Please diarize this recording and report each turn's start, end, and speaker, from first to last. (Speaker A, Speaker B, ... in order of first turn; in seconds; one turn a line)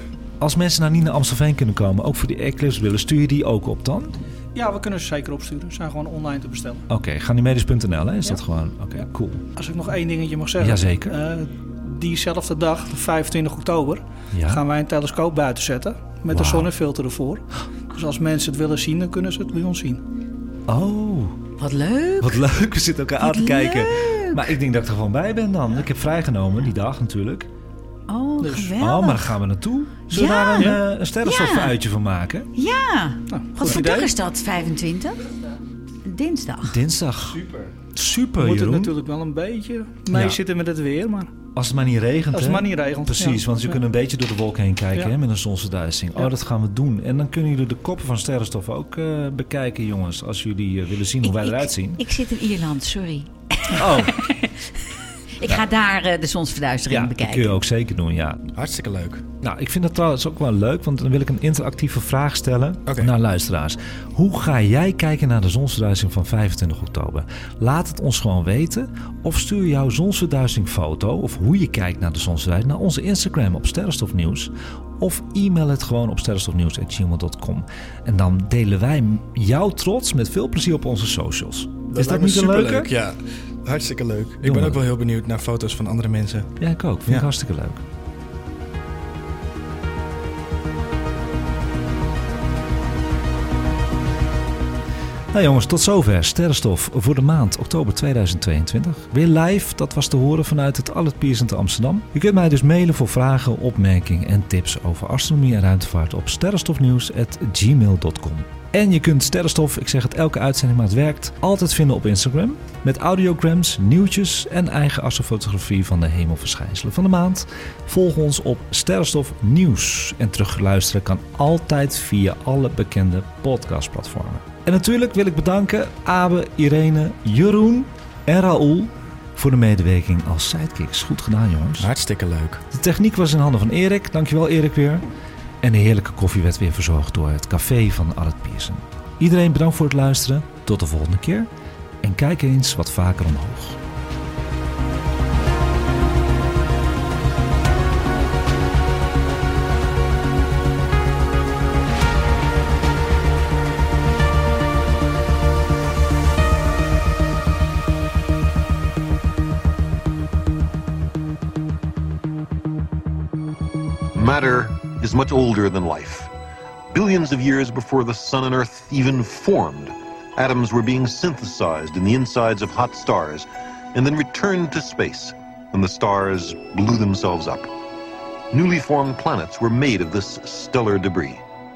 Speaker A: 0.4-4.2
Speaker B: 4.5-6.8
Speaker A: 6.9-9.4
Speaker B: 9.6-20.0
Speaker A: 10.6-11.2
Speaker A: 14.3-14.6
Speaker A: 16.3-16.7
Speaker A: 20.7-21.4
Speaker C: 21.6-22.4
Speaker A: 22.2-27.5
Speaker C: 23.2-24.5
Speaker C: 28.1-29.3
Speaker B: 28.4-28.8
Speaker A: 28.8-32.5
Speaker C: 30.1-31.7
Speaker C: 32.5-35.3
Speaker B: 33.3-34.1
Speaker C: 36.0-36.8
Speaker A: 36.6-38.9
Speaker B: 38.4-41.3
Speaker A: 40.1-40.4
Speaker A: 41.5-52.0
Speaker B: 42.3-43.5
Speaker C: 51.2-54.8
Speaker A: 53.7-54.3
Speaker C: 55.4-57.5
Speaker A: 56.9-58.5
Speaker D: 58.5-59.2
Speaker A: 59.4-82.9
Speaker D: 62.9-63.1
Speaker D: 81.9-86.5
Speaker A: 84.4-84.8
Speaker A: 86.6-87.8
Speaker A: 95.3-131.9
Speaker D: 131.8-132.6
Speaker A: 132.7-135.1
Speaker A: 135.6-141.5
Speaker A: 142.0-143.8
Speaker E: 164.1-166.3
Speaker E: 166.9-177.7
Speaker E: 178.5-181.4